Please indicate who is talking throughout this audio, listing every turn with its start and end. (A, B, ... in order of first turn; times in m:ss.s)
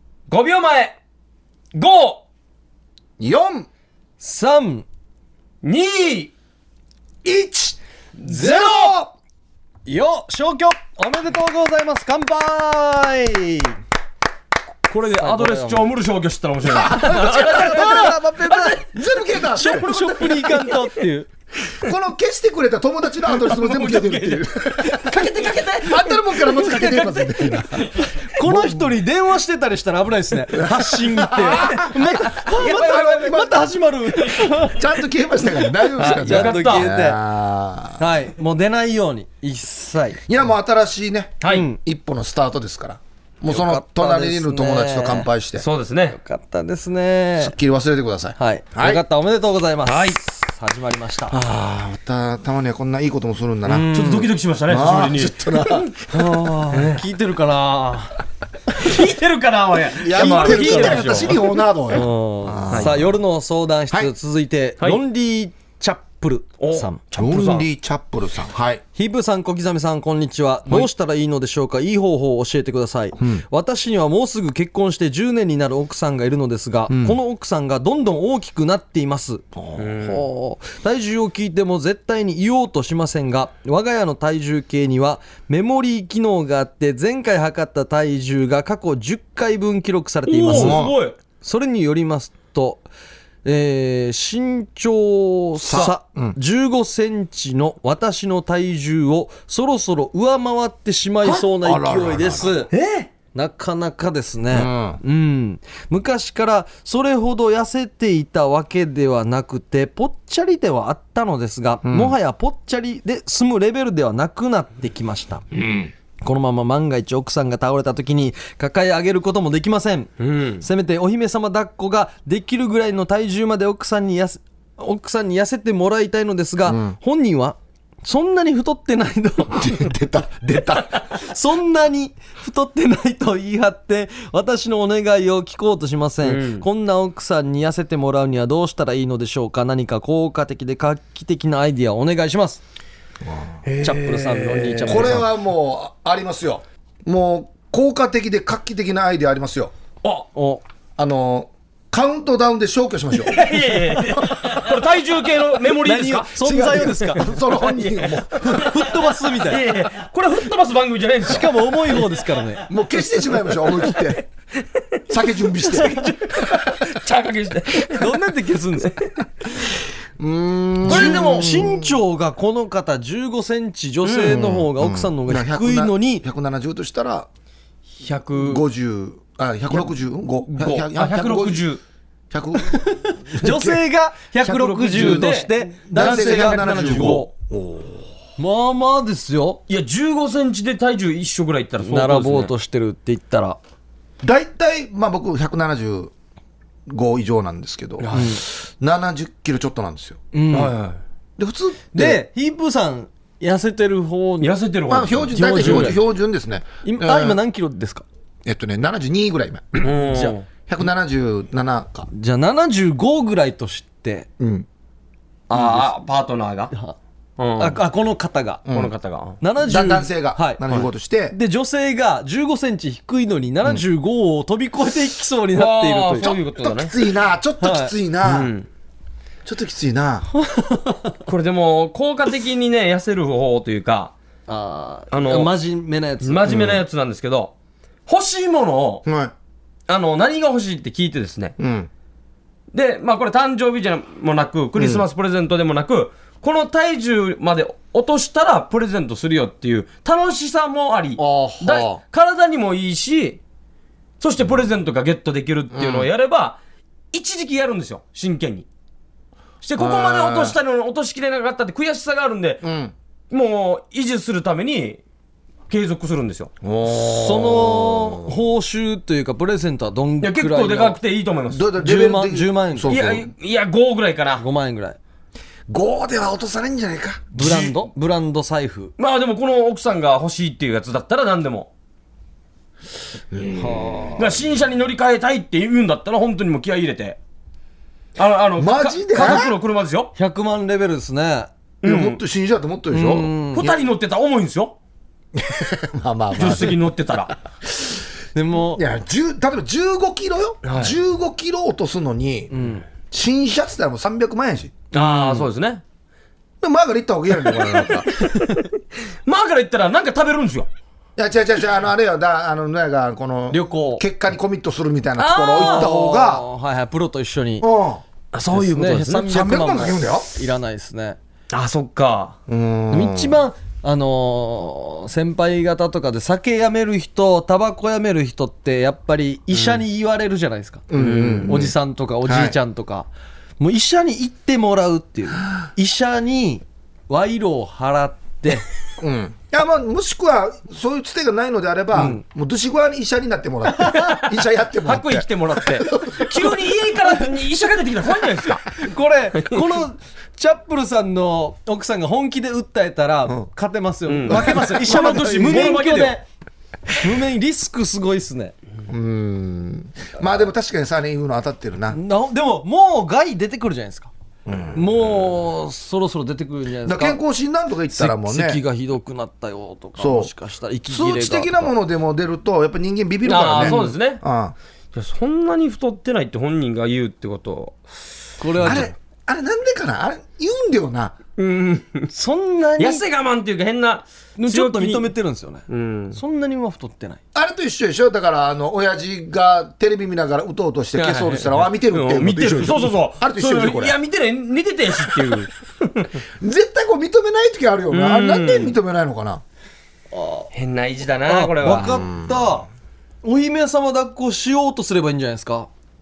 0:00.3-0:01.0 A
0:01.7-0:02.2 A
0:03.2-0:03.7 B
0:04.2-0:04.8 C
0:05.6-0:06.3 A
0:07.2-0:09.1 B
0:08.2-0:08.9 A
0:08.3-0:08.7 C
0:09.9-0:13.8 C
0:14.9-0:18.1 A
0:15.1-0:15.9 C
0:16.7-0:20.7 B
0:17.0-0:18.9 C
0:19.4-0:21.3 C
0:21.7-0:29.0 B
0:23.5-0:26.2 A
0:28.2-0:34.8 C
0:30.5-0:33.7 B
0:32.5-0:33.3 A
0:34.7-0:38.0 B
0:36.0-0:36.9 A
0:36.0-0:37.2 C
0:38.0-0:40.2 C
0:40.3-0:45.7 B
0:41.4-0:41.7 A
0:41.5-0:41.8 C
0:43.5-0:45.3 C
0:45.6-0:46.2 A
0:46.1-0:47.6 C
0:47.4-0:49.0 B
0:48.4-0:51.4 C
0:49.9-0:50.2 A
0:51.3-0:53.9 B
0:53.7-0:54.3 C
0:53.9-0:56.0 A
0:54.7-0:55.9 B
0:56.1-0:58.1 C
0:56.7-0:57.0 A
0:58.8-1:01.5 A
1:00.0-1:03.2 B
1:00.1-1:01.3 C
1:01.9-1:07.0 C
1:06.6-1:07.7 A
1:07.2-1:08.8 B
1:09.0-1:19.5 C
1:13.2-1:13.4 B
1:16.9-1:17.2 B
1:19.6-1:19.9 B
1:19.8-1:20.2 A
1:20.0-1:30.9 C
1:30.3-1:31.2 A
1:30.5-1:31.0 B
1:31.4-1:32.9 C
1:33.4-1:42.7 C
1:35.6-1:36.4 B
1:41.6-1:42.6 B
1:42.7-1:43.1 A
1:43.3-1:55.4 C
1:44.5-1:45.0 B
1:51.8-1:52.1 B
1:56.2-2:09.7 C
2:00.2-2:00.6 A
2:06.7-2:07.0 B
2:09.5-2:11.2 B
2:11.2-2:22.6 C
2:16.2-2:16.6 A
2:23.2-2:23.5 B
2:23.6-2:25.2 A
2:23.8-2:25.3 C
2:24.8-2:29.7 B
2:30.3-2:30.6 C
2:31.0-2:33.6 B
2:33.2-2:38.8 A
2:35.8-2:37.3 C
2:36.4-2:38.7 B
2:38.4-2:39.6 C
2:39.4-2:41.6 A
2:41.3-2:42.7 C
2:42.7-2:44.2 B
2:45.1-2:46.1 B
2:45.6-2:48.2 A
2:48.0-2:49.0 C
2:50.2-2:52.0 B
2:50.8-2:51.5 A
2:50.8-2:56.2 C
2:54.2-2:57.3 B
2:58.0-2:58.6 A
2:58.4-3:01.7 B
3:00.5-3:01.8 A
3:02.3-3:03.8 B
3:02.7-3:07.3 C
3:04.4-3:07.3 A
3:04.9-3:08.0 B
3:08.4-3:09.6 C
3:09.7-3:12.5 A
3:11.8-3:13.6 C
3:14.2-3:16.1 B
3:16.9-3:20.2 B
3:18.0-3:18.4 A
3:18.1-3:18.4 C
3:20.3-3:20.7 C
3:20.5-3:21.0 A
3:21.4-3:22.2 B
3:21.9-3:24.5 C
3:24.4-3:25.9 A
3:24.9-3:27.4 B
3:25.3-3:26.0 C
3:26.8-3:28.0 C
3:28.4-3:29.9 B
3:29.8-3:30.4 A
3:30.1-3:30.4 C
3:30.7-3:32.1 B
3:32.1-3:34.3 C
3:34.4-3:34.7 B
3:35.5-3:36.7 A
3:36.7-3:37.0 C
3:37.4-3:37.8 A
3:37.6-3:38.6 C
3:38.7-3:38.9 B
3:38.7-3:39.4 A
3:39.4-3:40.6 C
3:39.6-3:41.4 B
3:41.3-3:46.3 C
3:45.5-3:46.9 A
3:46.2-3:48.5 B
3:47.6-3:47.9 C
3:48.2-3:48.7 A
3:49.4-3:50.3 B
3:50.4-3:51.1 C
3:51.3-3:54.1 A
3:54.5-3:56.5 C
3:55.1-3:55.5 A
3:56.2-3:57.5 A
3:56.5-3:56.8 B
3:58.1-3:59.1 A
3:59.1-3:59.3 B
3:59.9-4:01.6 A
4:01.6-4:01.9 B
4:02.7-4:13.4 A
4:04.8-4:05.0 B
4:11.2-4:12.0 B
4:14.2-4:16.6 A
4:15.7-4:16.1 B
4:17.1-4:18.7 A
4:19.6-4:22.6 A
4:19.8-4:20.6 B
4:22.6-4:22.9 B
4:23.3-4:25.0 A
4:25.7-4:26.5 A
4:26.6-4:28.4 B
4:26.9-4:31.0 C
4:30.2-4:31.7 A
4:31.5-4:33.3 B
4:31.8-4:33.0 C
4:32.9-4:34.4 A
4:34.4-4:35.0 C
4:35.7-4:37.3 B
4:37.3-4:38.9 C
4:37.4-4:37.8 A
4:39.0-4:41.7 A
4:43.3-4:44.0 B
4:43.5-4:44.3 C
4:44.2-4:47.2 A
4:48.2-4:50.1 A
4:48.6-4:49.6 B
4:49.2-4:49.4 C
4:50.2-4:51.5 C
4:51.8-4:52.2 A
4:51.8-4:53.8 B
4:52.9-4:53.7 C
4:53.6-4:54.8 A
4:55.4-4:56.9 B
4:56.4-4:57.4 A
4:58.4-4:58.8 C
4:58.8-5:04.8 B
5:00.6-5:01.0 A
5:02.5-5:02.8 C
5:04.9-5:05.8 A
5:05.0-5:05.4 C
5:06.6-5:08.1 B
5:07.6-5:08.6 A
5:09.2-5:10.7 A
5:11.2-5:16.4 B
5:13.5-5:14.0 C
5:15.2-5:15.9 A
5:15.6-5:17.7 C
5:17.6-5:18.0 B
5:18.3-5:19.4 A
5:18.5-5:21.2 C
5:19.3-5:20.3 B
5:21.5-5:22.4 A
5:22.5-5:23.4 B
5:22.9-5:30.8 C
5:30.9-5:32.6 B
5:30.9-5:31.6 A
5:31.4-5:33.1 C
5:33.6-5:38.7 C
5:39.0-5:46.5 B
5:41.9-5:42.2 C
5:44.8-5:48.7 A
5:48.8-5:56.2 C
5:54.1-5:56.2 A
5:54.3-5:55.7 B
5:57.0-5:58.6 C
5:58.9-6:02.0 B
6:01.9-6:04.1 C
6:04.5-6:05.1 B
6:04.8-6:07.2 C
6:06.8-6:08.6 B
6:07.9-6:11.7 C
6:10.0-6:10.3 B
6:10.9-6:14.6 B
6:13.2-6:14.2 A
6:13.6-6:13.9 C
6:14.9-6:17.9 A
6:18.4-6:18.9 C
6:18.6-6:21.2 B
6:21.4-6:22.1 A
6:22.1-6:23.0 C
6:22.8-6:25.1 A
6:24.4-6:27.2 C
6:25.7-6:26.2 A
6:27.4-6:34.0 B
6:31.0-6:36.1 A
6:36.4-6:39.4 B
6:37.9-6:38.8 A
6:40.1-6:40.5 C
6:40.5-6:42.0 A
6:41.3-6:42.7 C
6:41.6-6:42.6 B
6:43.2-6:45.7 C